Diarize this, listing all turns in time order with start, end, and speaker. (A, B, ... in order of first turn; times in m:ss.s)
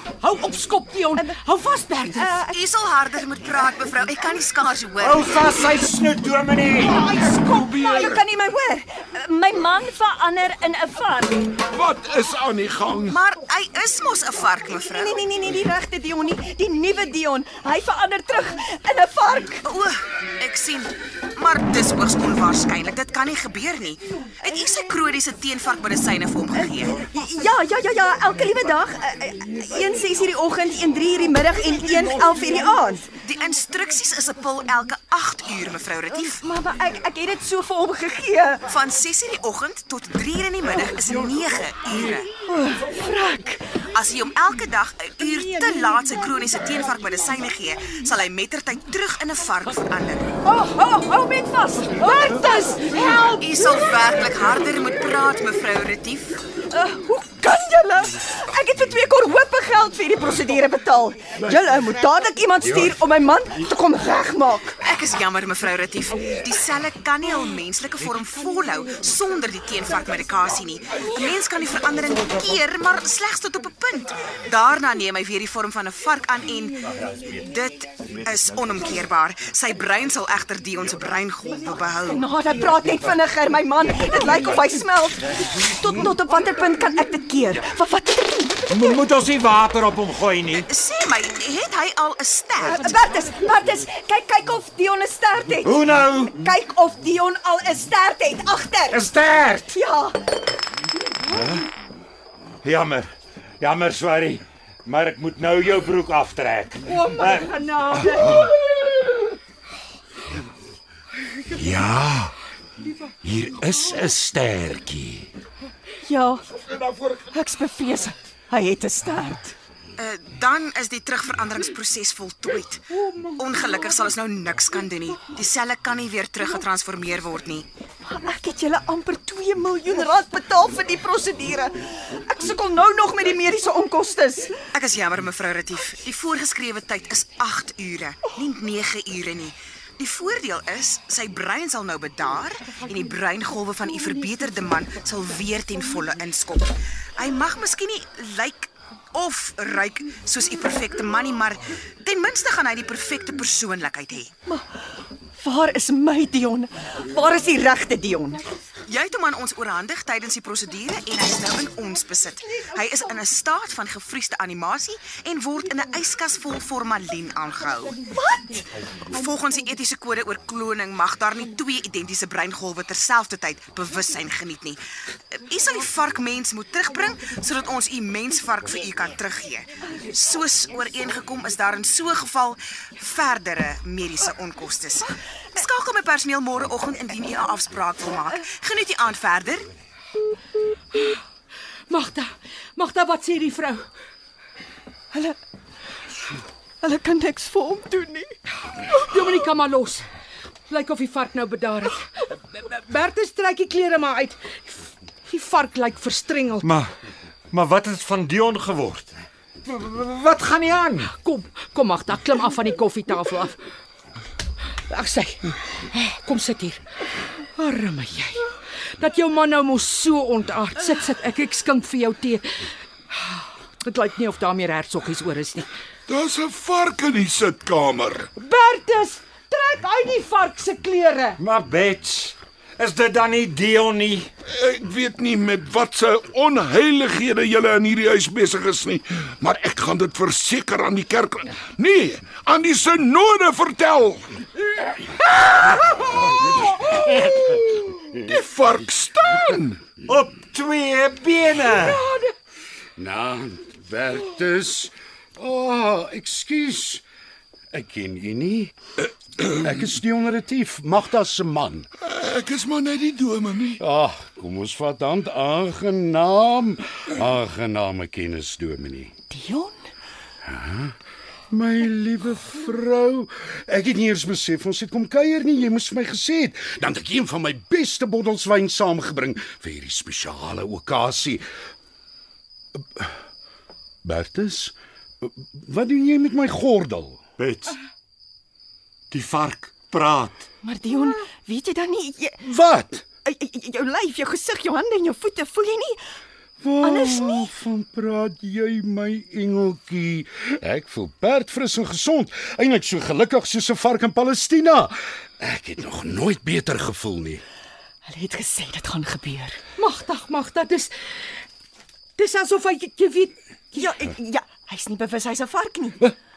0:00.2-0:02.3 A
0:02.1-0:02.6 B
0:02.5-0:05.3 C
0:05.0-0:07.2 D
0:06.9-0:08.2 E
0:07.0-0:11.6 B
0:11.7-0:13.2 E
0:13.1-0:15.2 C
0:14.7-0:19.6 B
0:19.7-0:27.0 C
0:24.4-0:24.9 B
0:26.6-0:33.2 B
0:33.1-0:36.4 C
0:36.4-0:38.7 B
0:38.7-0:42.3 C
0:42.4-0:43.8 B
0:43.9-0:50.3 C
0:45.2-0:45.9 A
0:50.5-0:53.2 B
0:50.5-0:51.3 A
0:51.9-0:53.6 A
0:53.4-0:56.4 C
0:56.7-1:04.8 B
1:04.8-1:22.3 C
1:17.0-1:17.4 D
1:18.0-1:18.3 D
1:22.0-1:29.0 B
1:28.7-1:30.7 D
1:30.7-1:32.9 C
1:32.6-1:39.0 B
1:35.6-1:36.4 D
1:38.9-1:39.8 D
1:39.7-1:40.2 B
1:41.3-1:41.7 D
1:42.6-1:43.1 D
1:43.6-1:48.5 D
1:46.9-1:48.5 A
1:51.5-1:52.3 D
1:53.2-1:55.3 D
1:56.0-1:56.4 B
1:56.5-1:57.3 E
1:57.3-1:59.6 B
2:00.0-2:02.8 C
2:03.4-2:07.7 C
2:08.0-2:14.6 B
2:14.7-2:34.3 C
2:35.4-2:38.4 B
2:38.8-2:48.0 C
2:48.1-2:48.6 B
2:49.1-2:54.8 C
2:55.3-3:09.7 C
3:11.9-3:13.9 A
3:16.8-3:18.4 B
3:18.9-3:20.0 A
3:20.7-3:26.7 A
3:26.6-3:26.9 D
3:27.5-3:29.1 D
3:29.6-3:31.1 D
3:31.0-3:33.6 A
3:34.9-3:36.8 A
3:37.6-3:42.7 A
3:43.2-3:45.7 A
3:46.1-3:48.3 E
3:48.4-3:51.4 A
3:51.4-3:54.3 D
3:54.5-4:04.3 E
4:06.2-4:07.5 E
4:08.1-4:09.8 E
4:10.0-4:12.1 D
4:13.0-4:17.0 F
4:17.7-4:18.7 F
4:19.5-4:21.9 F
4:22.0-4:23.8 E
4:23.8-4:29.1 F
4:29.3-4:29.8 B
4:30.4-4:30.9 F
4:31.5-4:41.4 F
4:42.8-4:43.1 F
4:44.0-4:47.2 F
4:47.4-4:47.8 D
4:49.1-4:50.5 D
4:50.6-4:52.4 B
4:52.4-4:53.0 F
4:53.2-4:56.0 B
4:56.6-5:07.4 F
4:56.8-4:57.5 B
5:08.0-5:09.6 B
5:09.8-5:11.3 A
5:12.2-5:13.9 A
5:13.7-5:16.1 B